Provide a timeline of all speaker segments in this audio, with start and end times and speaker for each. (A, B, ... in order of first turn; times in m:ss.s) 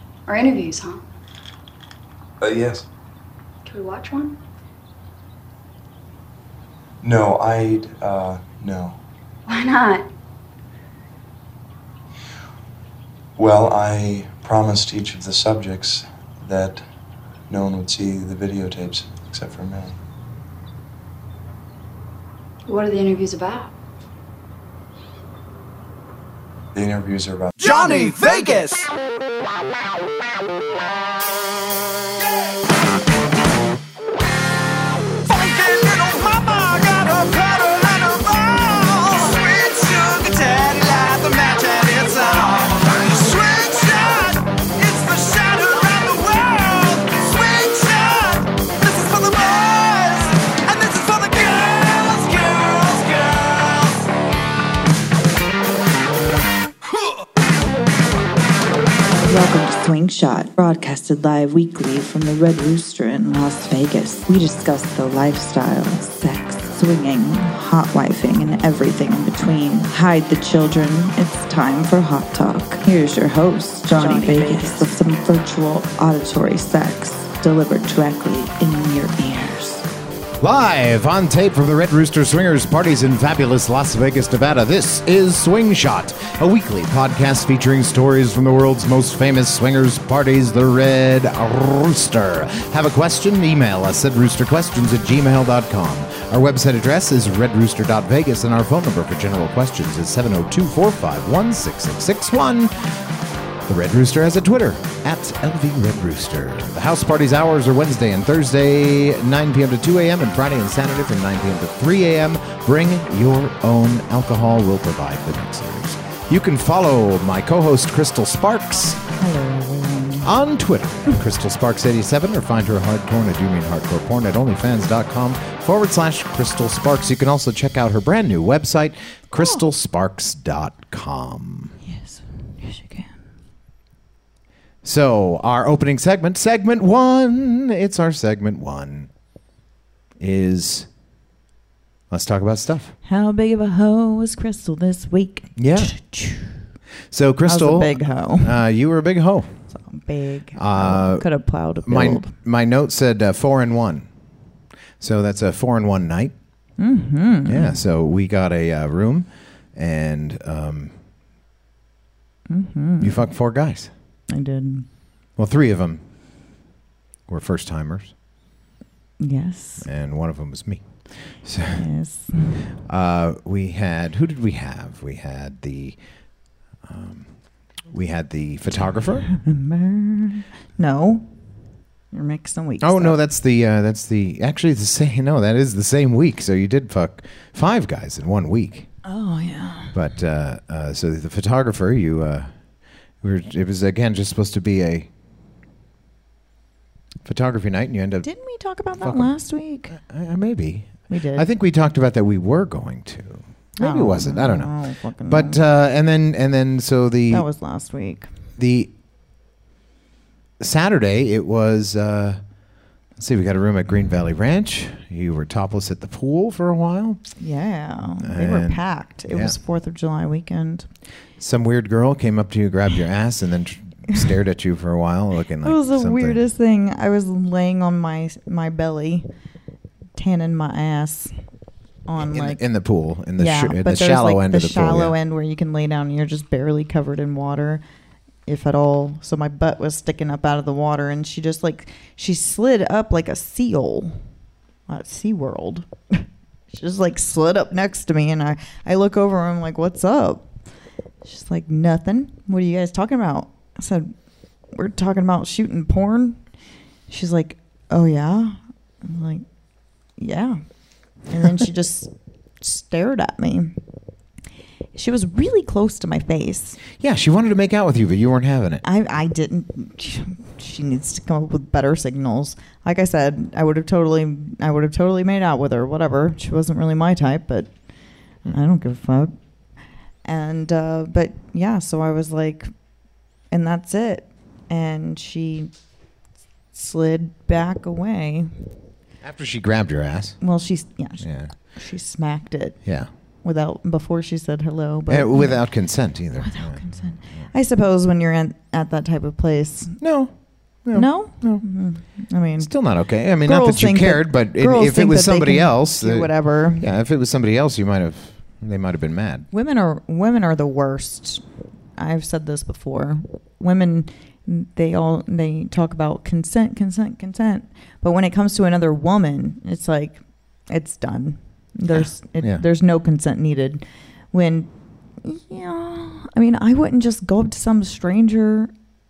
0:00.3-0:01.0 A
0:02.4-0:02.8 B
0:03.6-0:04.4 A
0:07.0-0:09.0 B
0:09.5-0:10.1 A
0:13.4-0:16.8 B
0:17.5-0:20.0 B
0:22.7-0:23.7 A
0:26.7-0:28.0 B
0:27.6-0:28.9 C
0:35.2-0:54.1 C
0:59.1-1:19.8 D
1:20.4-1:42.7 E
1:43.6-1:59.0 E
1:59.2-2:00.3 D
2:00.2-2:11.8 E
2:09.4-2:09.6 D
2:11.8-2:13.1 D
2:14.8-2:19.1 E
2:20.2-2:20.9 E
2:22.1-2:22.9 E
2:23.1-2:26.6 D
2:25.6-2:25.9 E
2:27.1-2:29.5 E
2:27.5-2:28.6 D
2:29.7-2:32.3 D
2:30.6-2:31.3 E
2:31.9-2:34.1 E
2:35.0-2:36.3 E
2:36.8-2:37.8 D
2:37.5-2:40.9 E
2:42.5-2:43.2 D
2:43.0-2:43.9 E
2:44.3-2:44.9 D
2:45.4-2:46.0 E
2:47.3-2:48.1 E
2:49.2-2:49.9 D
2:49.8-2:51.8 E
2:51.8-2:52.7 D
2:52.8-2:56.0 E
2:56.8-2:57.3 E
2:57.9-2:59.3 E
2:59.3-3:01.2 D
3:02.1-3:03.2 D
3:02.8-3:08.9 E
3:09.0-3:10.0 D
3:09.9-3:12.5 E
3:13.2-3:15.1 E
3:17.2-3:18.3 E
3:18.2-3:20.0 D
3:19.0-3:19.3 E
3:19.9-3:24.7 E
3:21.1-3:21.5 D
3:23.8-3:25.6 D
3:25.3-3:27.5 E
3:27.3-3:28.3 D
3:28.6-3:28.9 E
3:30.6-3:32.4 E
3:33.2-3:37.2 E
3:37.4-3:40.9 D
3:38.2-3:39.5 E
3:41.4-3:46.4 E
3:45.6-3:49.3 D
3:50.2-3:51.3 D
3:52.1-3:52.6 D
3:52.2-3:55.2 E
3:53.4-3:57.8 D
3:58.5-4:04.2 D
4:04.9-4:10.5 D
4:11.2-4:14.1 D
4:14.7-4:16.4 D
4:17.1-4:19.4 D
4:20.2-4:20.6 D
4:21.3-4:23.8 D
4:25.0-4:26.8 D
4:27.0-4:28.8 E
4:28.8-4:37.7 D
4:38.4-4:39.3 D
4:40.2-4:42.7 D
4:43.5-4:45.7 D
4:46.7-4:48.5 D
4:49.2-4:50.4 E
4:50.4-4:52.8 D
4:51.2-4:51.5 E
4:53.4-4:55.6 D
4:55.1-4:56.8 E
4:56.4-5:00.0 D
5:00.0-5:00.3 E
5:00.8-5:01.6 E
5:00.9-5:02.7 D
5:02.6-5:09.5 E
5:03.4-5:06.9 D
5:09.5-5:11.4 D
5:12.0-5:24.7 D
5:21.9-5:22.6 E
5:25.2-5:28.7 D